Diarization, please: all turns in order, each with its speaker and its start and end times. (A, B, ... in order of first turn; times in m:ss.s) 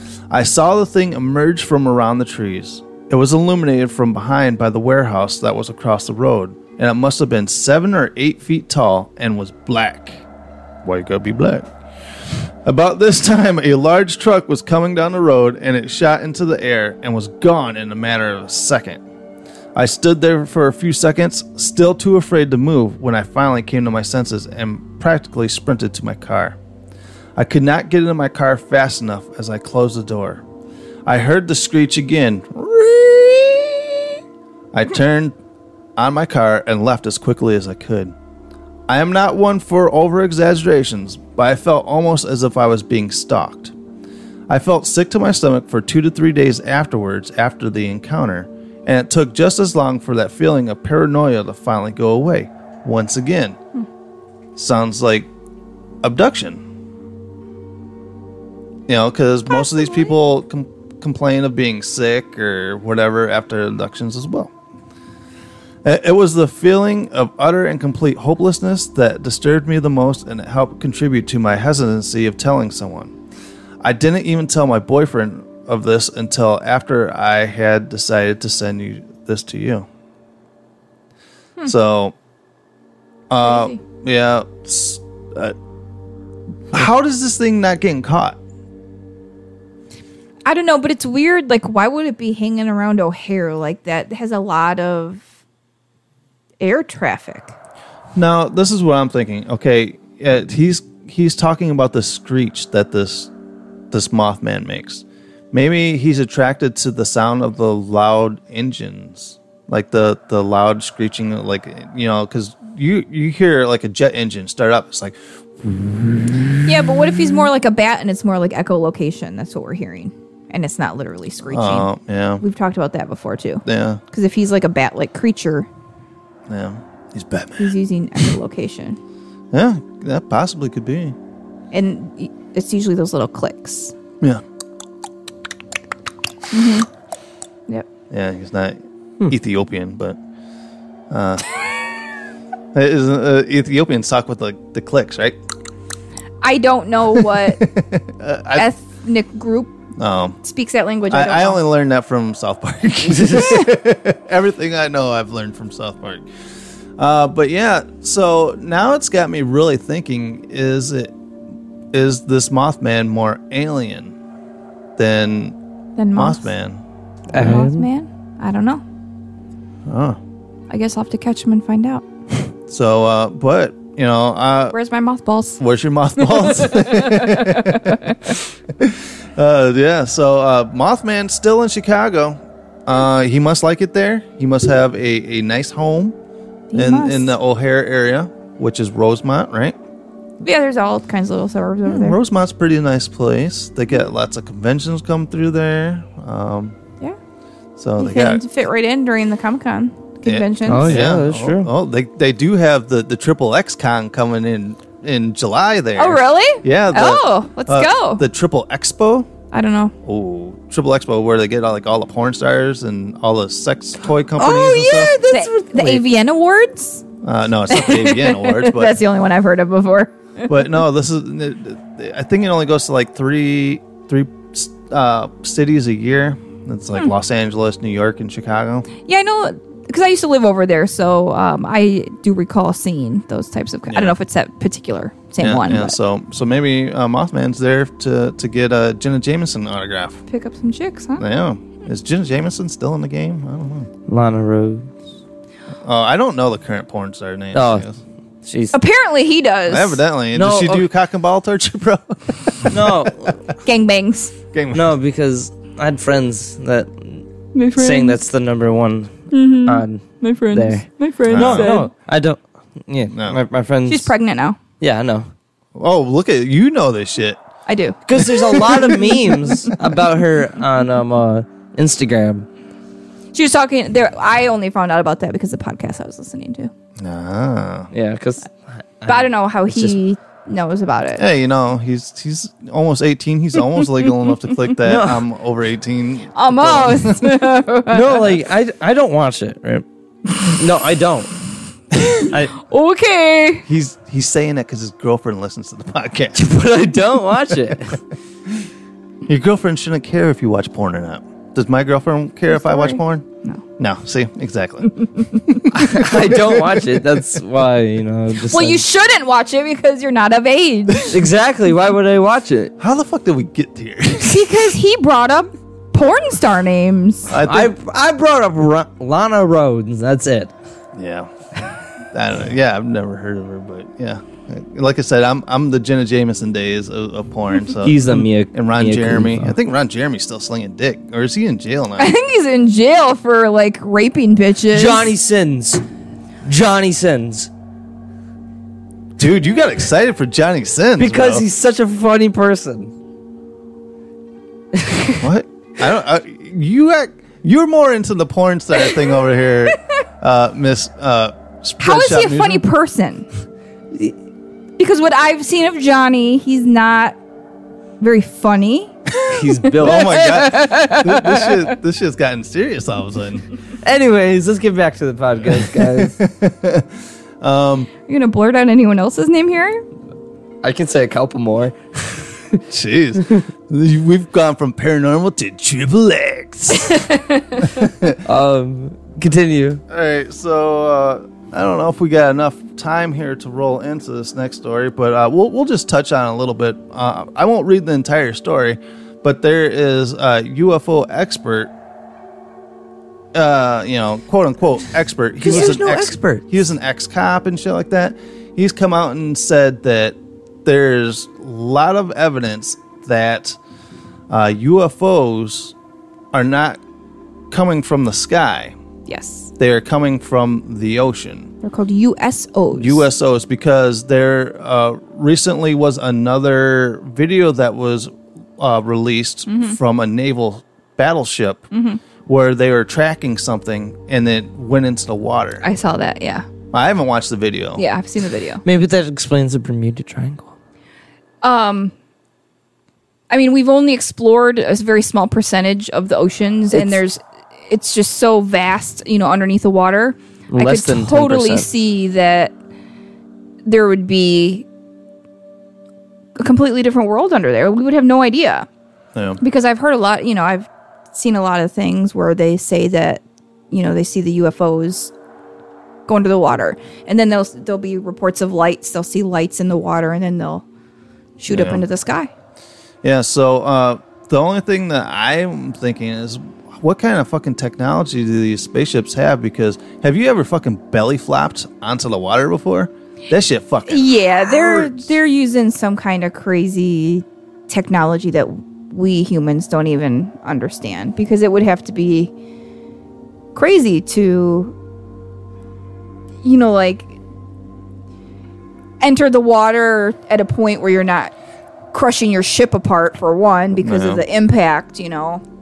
0:00.3-0:10.2 A
0:10.8-0:11.7 A
0:12.6-0:19.0 A
0:19.7-0:26.6 A
0:27.4-0:30.4 A
0:31.0-0:34.2 A
0:34.7-0:35.4 A
0:36.0-0:38.1 A
0:38.9-0:43.7 A
0:44.5-0:53.6 A
0:54.5-0:55.3 A
0:56.0-0:56.6 A
0:58.9-1:04.5 A
0:59.6-1:00.1 B
1:05.8-1:13.1 A
1:13.8-1:19.9 A
1:21.6-1:22.1 A
1:23.3-1:25.6 A
1:23.4-1:23.8 B
1:26.7-1:28.4 A
1:30.4-1:35.2 B
1:36.6-1:37.5 B
1:38.1-1:43.3 A
1:43.9-1:57.0 A
1:56.6-2:01.9 B
2:01.4-2:02.4 A
2:02.4-2:05.7 B
2:03.6-2:04.0 A
2:06.5-2:07.7 A
2:07.6-2:09.0 B
2:09.5-2:11.2 A
2:11.7-2:13.9 B
2:16.5-2:16.9 B
2:18.1-2:20.2 A
2:21.1-2:21.5 A
2:22.7-2:25.4 A
2:26.4-2:27.6 B
2:27.1-2:28.7 A
2:28.6-2:29.7 B
2:30.0-2:30.4 A
2:30.4-2:31.6 B
2:31.1-2:36.2 A
2:37.0-2:41.1 A
2:41.9-2:44.2 A
2:45.0-2:45.6 A
2:46.0-2:46.5 B
2:46.1-2:46.8 A
2:47.3-2:47.9 C
2:47.3-2:48.8 B
2:49.9-2:50.2 A
2:50.7-2:52.0 B
2:52.7-2:54.8 A
2:54.7-2:55.6 B
2:55.6-3:06.2 A
2:56.2-2:58.2 B
3:06.7-3:07.3 B
3:06.7-3:09.8 A
3:10.4-3:12.2 B
3:11.8-3:16.8 A
3:17.8-3:18.4 A
3:18.0-3:21.0 B
3:20.2-3:29.3 A
3:20.7-3:21.7 C
3:26.0-3:28.2 B
3:29.5-3:29.9 B
3:30.0-3:35.2 A
3:34.4-3:36.0 C
3:35.2-3:37.0 B
3:37.2-3:39.0 A
3:37.7-3:40.5 B
3:40.5-3:48.9 A
3:49.0-3:56.0 B
3:53.9-3:54.2 A
3:55.4-4:00.2 A
4:00.3-4:01.2 B
4:01.2-4:03.9 A
4:04.1-4:04.9 C
4:05.8-4:08.0 A
4:07.5-4:07.8 C
4:08.4-4:08.7 C
4:08.7-4:10.0 B
4:09.7-4:13.3 A
4:10.3-4:10.9 C
4:12.7-4:13.4 C
4:13.6-4:14.3 B
4:14.5-4:14.9 A
4:14.7-4:17.2 C
4:17.5-4:18.2 B
4:17.8-4:24.1 C
4:19.3-4:21.9 B
4:21.3-4:21.7 A
4:23.1-4:23.4 A
4:23.9-4:24.6 B
4:24.8-4:25.3 C
4:25.7-4:27.4 A
4:27.7-4:28.0 B
4:28.1-4:32.4 C
4:28.2-4:29.3 A
4:33.3-4:36.7 B
4:37.0-4:37.9 A
4:37.9-4:40.0 C
4:39.1-4:41.2 B
4:41.2-4:47.4 A
4:44.8-4:45.2 C
4:46.3-4:48.2 B
4:47.9-4:49.8 C
4:50.4-4:51.4 C
4:52.2-4:53.6 B
4:52.2-4:52.6 C
4:53.7-4:56.4 A
4:56.3-4:58.0 C
4:59.2-5:03.2 A
5:02.5-5:03.6 B
5:03.8-5:07.0 A
5:05.7-5:08.8 C
5:08.4-5:11.2 B
5:11.1-5:12.7 C
5:12.8-5:14.5 A
5:14.2-5:17.3 B
5:17.3-5:17.7 A
5:17.4-5:20.5 C
5:20.9-5:21.3 A
5:22.1-5:32.1 A
5:27.8-5:29.6 C
5:32.0-5:35.1 B
5:34.7-5:35.8 C
5:36.4-5:37.5 C
5:39.2-5:41.4 A
5:41.0-5:42.9 C
5:44.7-5:45.2 C
5:45.2-5:52.6 A
5:51.8-5:53.3 B
5:54.8-5:57.2 B
5:58.0-5:59.0 B
5:59.2-6:01.1 C
5:59.8-6:03.4 A
6:03.8-6:06.2 C
6:05.5-6:06.9 A
6:07.4-6:07.9 A
6:08.1-6:09.8 B
6:10.6-6:12.6 C
6:12.7-6:17.0 A
6:16.7-6:17.7 B
6:17.6-6:18.2 A
6:18.2-6:19.8 C
6:19.9-6:31.7 A
6:33.3-6:43.6 A
6:35.4-6:36.5 C
6:44.3-6:45.7 A
6:46.3-6:46.8 A
6:47.5-6:48.7 A
6:49.1-6:49.5 B
6:49.6-6:51.5 A
6:51.6-6:53.0 B
6:52.7-7:01.7 A
6:59.5-6:59.8 B
7:01.7-7:02.0 B
7:02.2-7:05.6 A
7:05.6-7:06.4 B
7:06.7-7:07.8 A
7:07.8-7:08.6 B
7:08.6-7:10.5 C
7:11.4-7:11.9 B
7:13.3-7:22.5 B
7:16.7-7:17.0 C
7:20.5-7:21.7 C
7:23.6-7:24.6 B
7:26.4-7:28.7 B
7:29.1-7:29.4 A
7:29.4-7:35.1 B
7:36.1-7:40.6 B
7:41.4-7:42.3 B
7:41.5-7:41.8 A
7:43.0-7:55.1 A
7:53.8-8:02.3 B
8:03.5-8:04.8 B
8:06.4-8:07.2 B
8:09.0-8:11.3 B
8:11.9-8:15.4 B
8:13.8-8:14.2 A